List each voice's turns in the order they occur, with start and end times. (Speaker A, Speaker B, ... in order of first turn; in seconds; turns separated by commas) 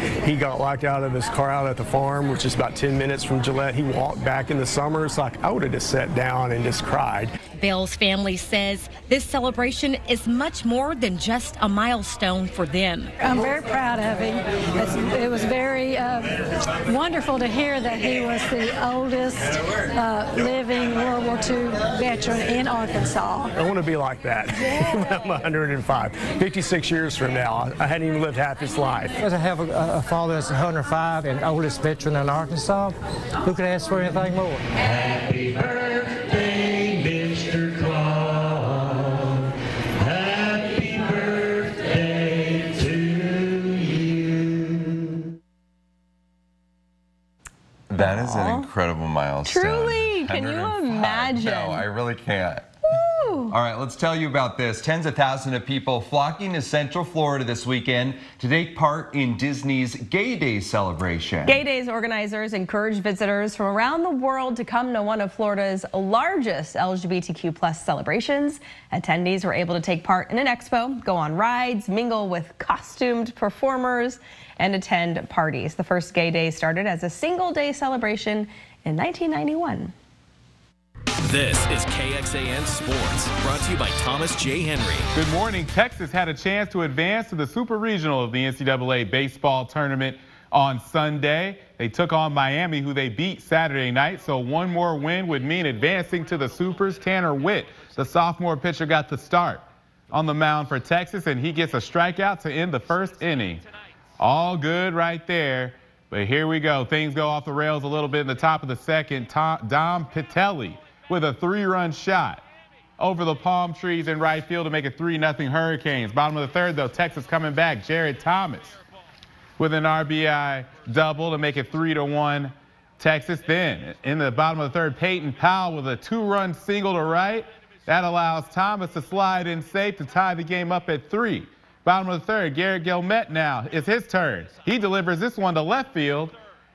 Speaker A: 0.2-7.3, Speaker B: 7.6-13.1, Speaker C: 13.2-23.5, Speaker A: 23.6-29.1, Speaker D: 29.2-32.9, Speaker D: 33.5-34.6, Speaker E: 47.9-52.7, Speaker F: 48.0-48.7, Speaker F: 49.4-51.9, Speaker F: 53.0-53.5, Speaker E: 53.5-61.6, Speaker F: 61.5-79.9, Speaker G: 81.3-85.0, Speaker H: 85.1-103.6, Speaker H: 104.2-112.4, Speaker H: 113.0-118.8, Speaker H: 119.6-136.4